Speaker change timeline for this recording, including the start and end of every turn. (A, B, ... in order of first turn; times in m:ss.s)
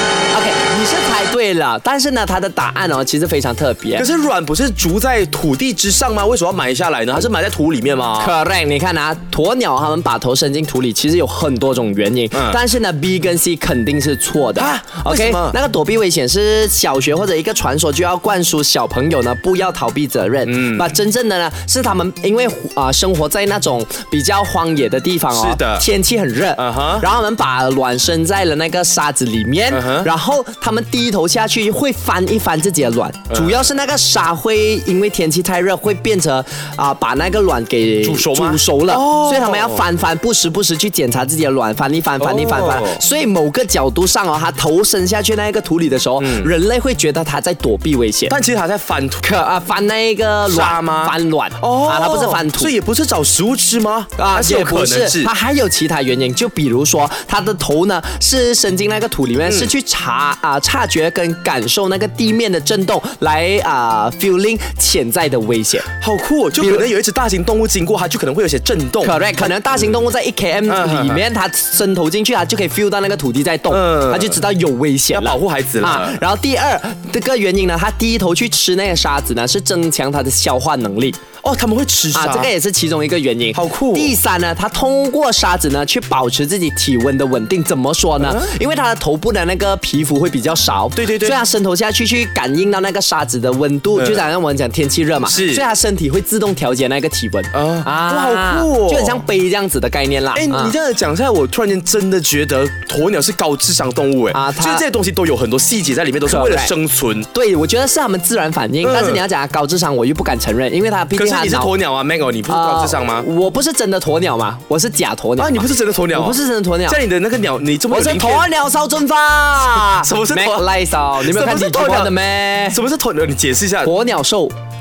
0:00.3-0:04.1 A
0:04.0-0:08.3 B
0:08.2-0:48.4 A
0:12.3-0:12.6 B
0:14.6-0:15.6 B
0:20.4-0:20.9 B
0:25.3-0:25.8 B
0:26.6-0:27.1 B
0:29.7-0:30.1 B
0:33.3-0:33.6 B
0:38.0-0:39.8 B
0:42.2-0:43.0 B
0:46.2-0:46.5 B
0:48.3-0:49.2 B
0:49.2-0:52.7 A
0:50.4-0:55.3 B
0:54.2-1:05.9 A
0:59.4-0:59.7 B
1:06.0-1:09.9 B
1:06.6-1:06.8 A
1:09.0-1:21.2 A
1:10.7-1:11.2 B
1:13.7-1:14.4 B
1:15.1-1:16.2 B
1:21.4-1:22.5 B
1:22.1-1:40.7 A
1:23.5-1:24.2 B
1:28.2-1:28.5 B
1:31.0-1:31.4 B
1:33.9-1:34.3 B
1:35.2-1:35.6 B
1:37.5-1:39.2 B
1:40.3-1:47.3 B
1:44.3-1:44.8 A
1:46.2-1:46.7 A
1:47.3-1:51.7 A
1:48.8-1:49.2 B
1:51.1-1:53.2 B
1:52.5-1:57.0 A
1:55.4-1:58.5 B
1:57.9-2:02.8 A
2:00.0-2:00.6 B
2:01.2-2:02.2 B
2:02.7-2:03.9 B
2:03.8-2:04.6 A